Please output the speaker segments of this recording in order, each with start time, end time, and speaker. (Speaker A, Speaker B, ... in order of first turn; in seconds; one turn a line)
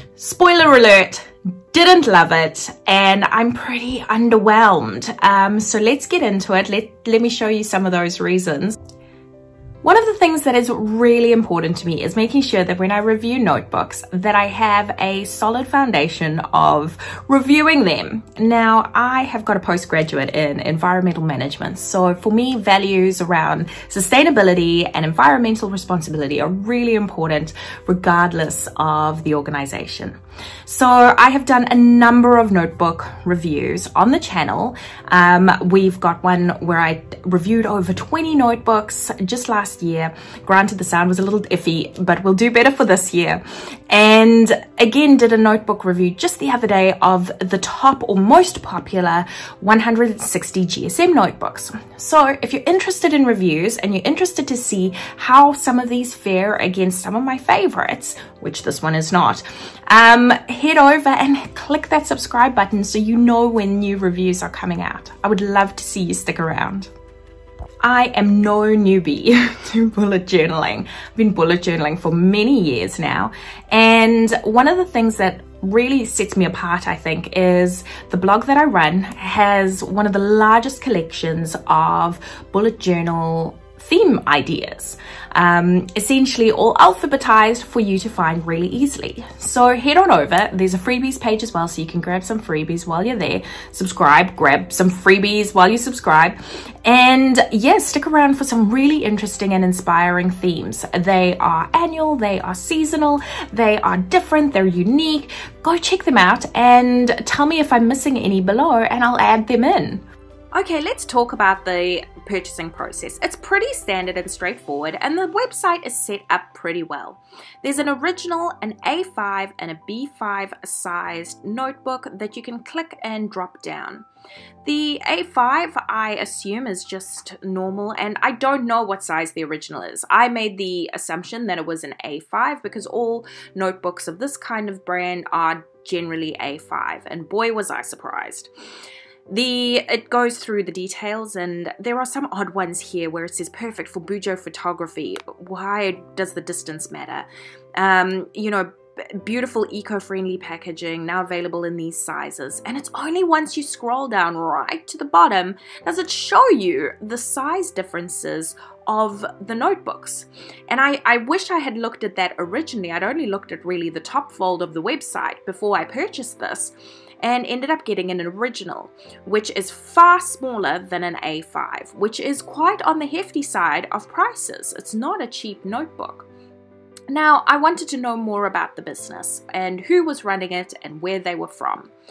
Speaker A: 0.2-8.8
Speaker A: 9.8-66.9
Speaker A: 67.8-124.1
Speaker A: 124.6-138.5
Speaker A: 139.3-176.3
Speaker A: 177.1-181.9